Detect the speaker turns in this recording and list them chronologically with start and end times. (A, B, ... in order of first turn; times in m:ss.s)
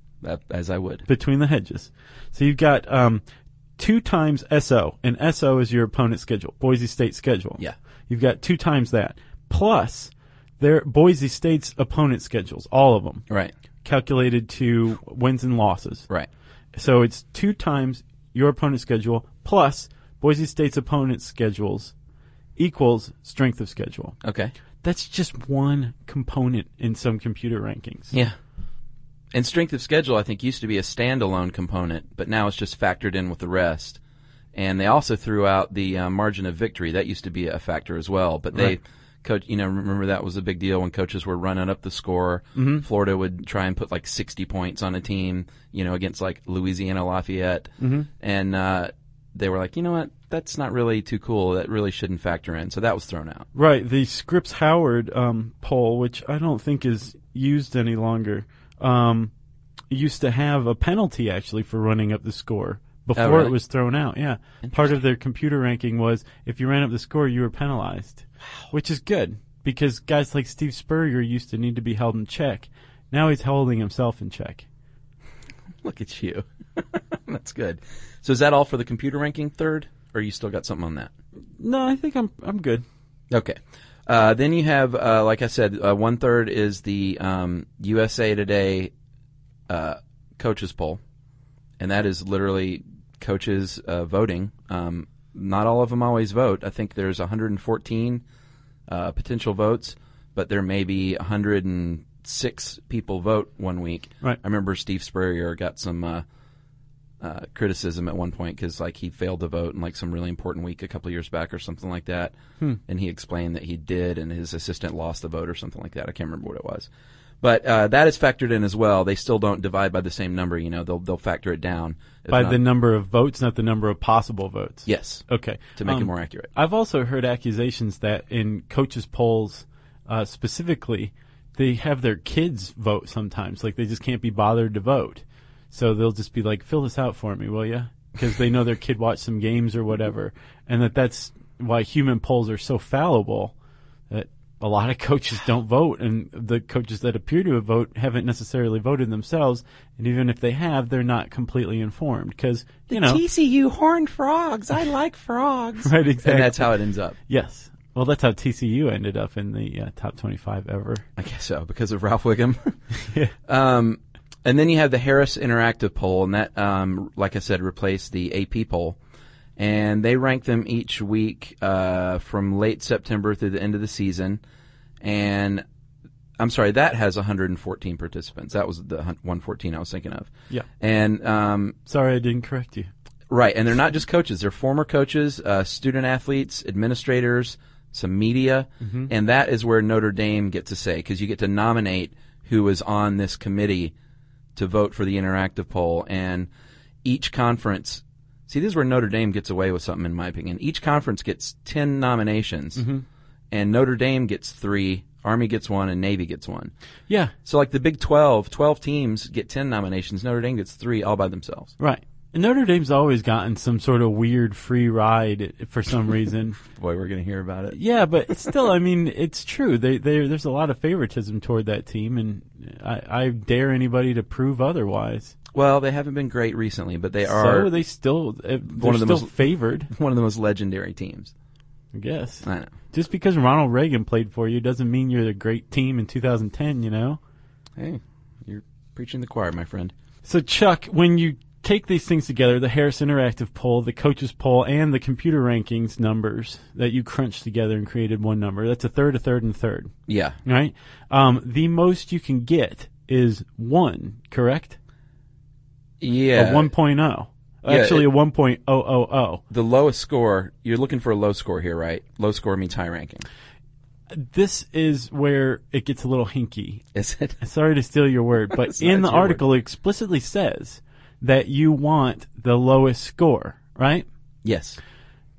0:00.2-0:01.0 A
0:01.1-0:03.2 B
0:03.8-0:13.2 B
0:13.3-0:13.5 A
0:13.8-0:16.1 B
0:16.7-0:21.9 B
0:22.6-0:24.2 B
0:24.2-0:24.5 A
0:24.8-0:28.1 B
0:29.3-0:34.0 A
0:34.5-0:53.5 A
0:42.6-0:42.8 B
0:47.8-0:48.1 B
0:53.5-0:59.3 B
0:59.9-1:14.6 B
1:03.2-1:03.5 A
1:04.6-1:05.0 A
1:15.8-1:21.1 A
1:21.6-1:22.8 B
1:23.3-1:28.9 A
1:29.7-1:31.0 A
1:31.8-1:38.2 A
1:38.9-1:46.2 A
1:47.2-1:56.9 A
1:57.4-2:02.6 A
2:02.3-2:23.5 B
2:04.8-2:05.2 A
2:05.8-2:06.5 A
2:24.1-2:33.2 B
2:32.9-2:37.2 A
2:35.8-2:36.8 B
2:37.3-2:41.0 B
2:41.2-2:42.7 A
2:43.0-2:43.3 B
2:43.4-2:49.0 A
2:49.6-2:54.4 A
2:55.0-2:55.6 A
2:56.4-3:01.8 A
3:01.8-3:02.9 B
3:03.3-3:13.9 A
3:08.8-3:09.1 B
3:14.6-3:16.5 A
3:17.0-3:22.8 A
3:22.8-3:23.0 B
3:23.5-3:26.7 A
3:27.4-3:31.7 A
3:31.8-3:36.6 B
3:36.7-3:37.8 A
3:37.7-3:45.3 B
3:45.5-3:47.7 A
3:47.2-3:49.9 B
3:48.7-3:51.3 A
3:51.9-3:57.2 B
3:52.4-3:52.7 A
3:57.8-3:59.9 A
4:00.2-4:09.9 B
4:10.1-4:10.4 A
4:10.4-4:14.8 B
4:16.0-4:16.7 A
4:16.3-4:19.4 B
4:17.7-4:18.1 A
4:19.5-4:23.2 A
4:24.1-4:26.8 B
4:26.9-4:27.4 A
4:27.4-4:34.1 B
4:28.5-4:29.4 A
4:34.4-4:34.8 A